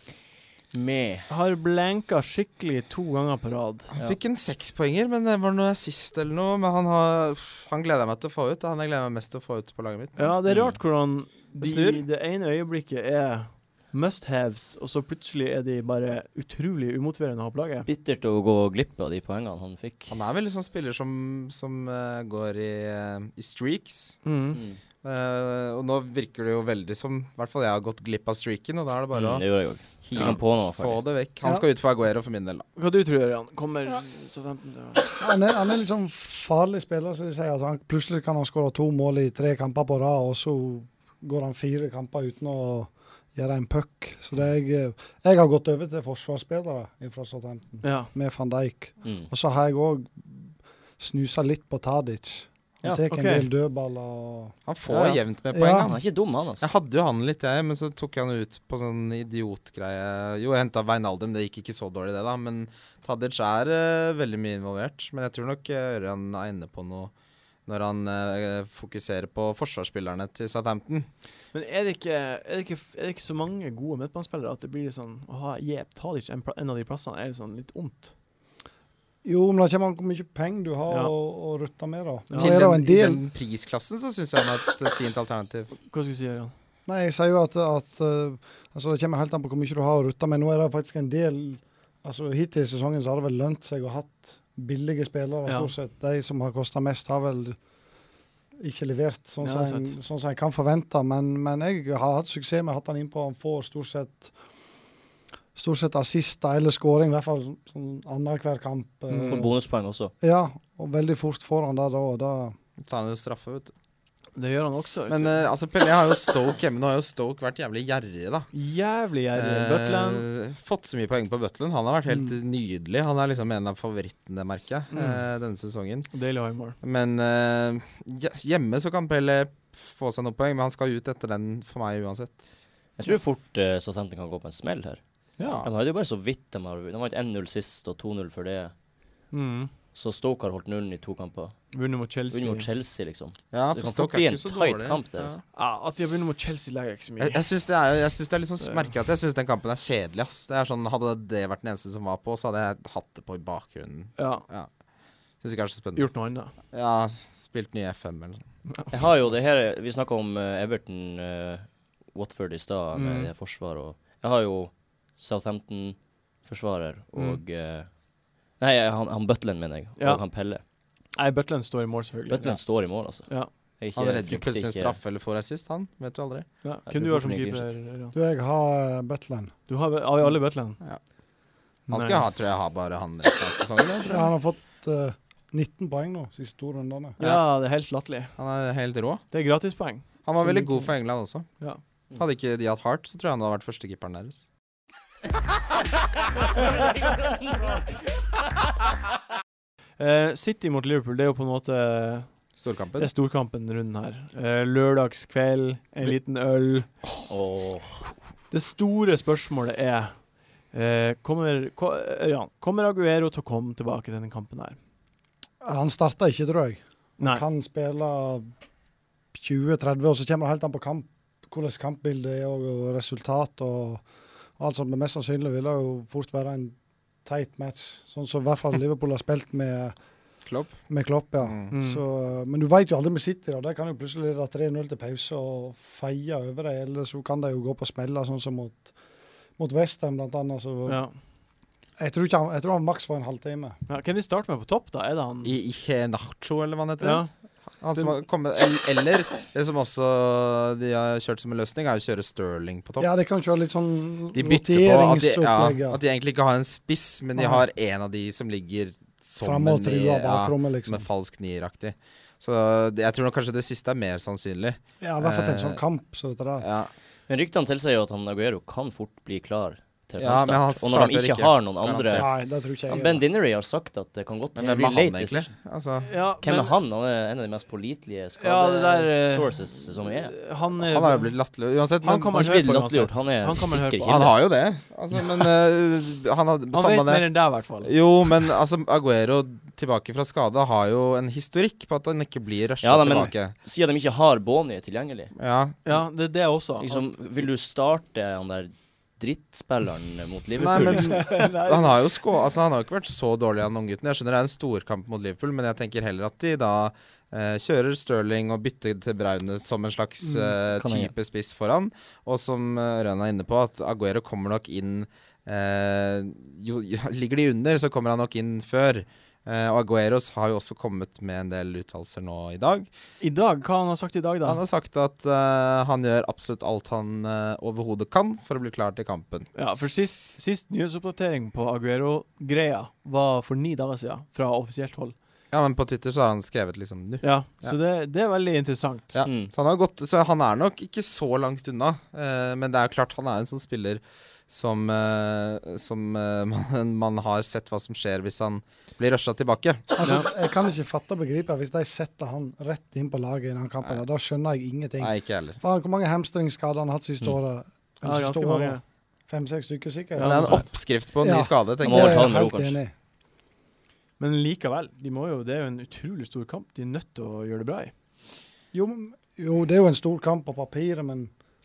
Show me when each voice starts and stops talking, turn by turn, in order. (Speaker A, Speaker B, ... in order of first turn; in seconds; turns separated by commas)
Speaker A: 0.7-1.3, Speaker B: 1.3-3.9, Speaker C: 3.9-10.2, Speaker B: 10.2-17.9, Speaker A: 10.5-10.8, Speaker C: 11.6-12.0, Speaker A: 17.9-20.1, Speaker C: 20.1-24.2, Speaker B: 24.2-24.6, Speaker C: 25.0-29.5, Speaker A: 29.1-31.0, Speaker C: 30.0-32.6, Speaker B: 32.8-35.1, Speaker D: 35.2-54.5, Speaker B: 47.8-48.1, Speaker B: 53.1-53.5, Speaker C: 54.6-56.0, Speaker B: 54.9-55.2, Speaker D: 55.5-55.9, Speaker A: 55.8-56.7, Speaker C: 56.6-67.1, Speaker C: 67.7-71.1, Speaker B: 71.5-78.1, Speaker D: 79.2-83.2, Speaker B: 82.3-82.6, Speaker C: 82.3-85.8, Speaker B: 85.8-86.5, Speaker D: 86.8-97.6, Speaker B: 95.5-95.7, Speaker D: 98.6-104.3, Speaker B: 99.4-100.0, Speaker D: 105.5-109.5, Speaker A: 109.2-110.1, Speaker D: 110.2-112.5, Speaker C: 112.8-113.7, Speaker B: 114.3-115.4, Speaker C: 115.1-118.5, Speaker B: 118.5-120.2, Speaker C: 119.3-126.1, Speaker B: 124.9-125.2, Speaker B: 126.1-126.8, Speaker C: 126.8-132.5, Speaker A: 133.0-135.0, Speaker B: 135.4-135.7, Speaker A: 135.6-138.7, Speaker B: 139.3-139.7, Speaker A: 139.9-141.6, Speaker B: 141.7-142.7, Speaker A: 142.3-145.3, Speaker C: 143.5-145.4, Speaker B: 145.5-147.4, Speaker C: 147.2-154.7, Speaker B: 148.6-148.9, Speaker B: 154.2-154.4, Speaker C: 155.4-156.1, Speaker B: 155.9-156.5, Speaker C: 156.7-158.4, Speaker A: 158.9-167.9, Speaker B: 162.9-163.3, Speaker B: 167.1-167.4, Speaker A: 168.6-170.6, Speaker B: 170.0-170.2, Speaker B: 171.1-172.6, Speaker A: 172.3-174.9, Speaker C: 173.9-176.5, Speaker B: 176.6-178.1, Speaker A: 176.9-177.7, Speaker D: 178.1-179.5, Speaker B: 179.7-180.8, Speaker B: 181.9-182.5, Speaker C: 181.9-184.3, Speaker D: 184.0-187.2, Speaker C: 187.2-187.4, Speaker B: 187.2-188.3, Speaker C: 188.3-189.2, Speaker B: 189.3-190.9, Speaker C: 190.2-191.5, Speaker C: 192.1-194.4, Speaker B: 200.0-202.4, Speaker C: 202.6-203.1, Speaker B: 203.0-206.9, Speaker A: 207.3-208.1, Speaker B: 208.5-214.8, Speaker D: 215.6-218.5, Speaker B: 217.2-217.4, Speaker D: 219.3-224.0, Speaker D: 224.6-229.9, Speaker C: 230.5-230.8, Speaker D: 230.9-238.9, Speaker C: 231.4-231.7, Speaker B: 231.7-232.0, Speaker D: 239.6-241.0, Speaker B: 240.8-241.1, Speaker D: 242.0-243.8, Speaker B: 243.9-245.6, Speaker C: 245.4-247.3, Speaker B: 247.0-247.3, Speaker C: 247.8-253.1, Speaker D: 253.0-256.0, Speaker C: 254.3-265.8, Speaker D: 257.4-257.6, Speaker D: 259.4-261.1, Speaker D: 265.0-266.6, Speaker C: 266.6-266.9, Speaker A: 267.3-272.3, Speaker C: 270.2-272.3, Speaker D: 272.1-273.2, Speaker A: 272.9-275.5, Speaker C: 274.5-276.1, Speaker B: 276.0-276.7, Speaker A: 276.4-280.4, Speaker B: 278.4-281.3, Speaker C: 280.8-282.3, Speaker B: 282.0-284.3, Speaker A: 282.2-284.3, Speaker C: 284.0-293.5, Speaker B: 286.7-287.9, Speaker A: 292.8-295.3, Speaker C: 295.4-295.8, Speaker B: 295.8-297.1, Speaker A: 296.8-301.2, Speaker B: 300.6-302.0, Speaker C: 300.6-322.9, Speaker A: 310.8-311.1, Speaker B: 323.2-324.6, Speaker C: 324.4-329.5, Speaker B: 329.5-335.1, Speaker C: 335.5-337.8, Speaker B: 337.2-339.1, Speaker C: 339.1-350.0, Speaker A: 339.2-339.5, Speaker D: 350.0-360.7, Speaker B: 350.0-350.3, Speaker C: 355.0-355.6, Speaker B: 358.0-358.8, Speaker B: 360.1-360.7, Speaker C: 360.2-362.4, Speaker D: 361.2-362.9, Speaker A: 361.8-362.8, Speaker B: 364.2-367.9, Speaker D: 368.7-371.3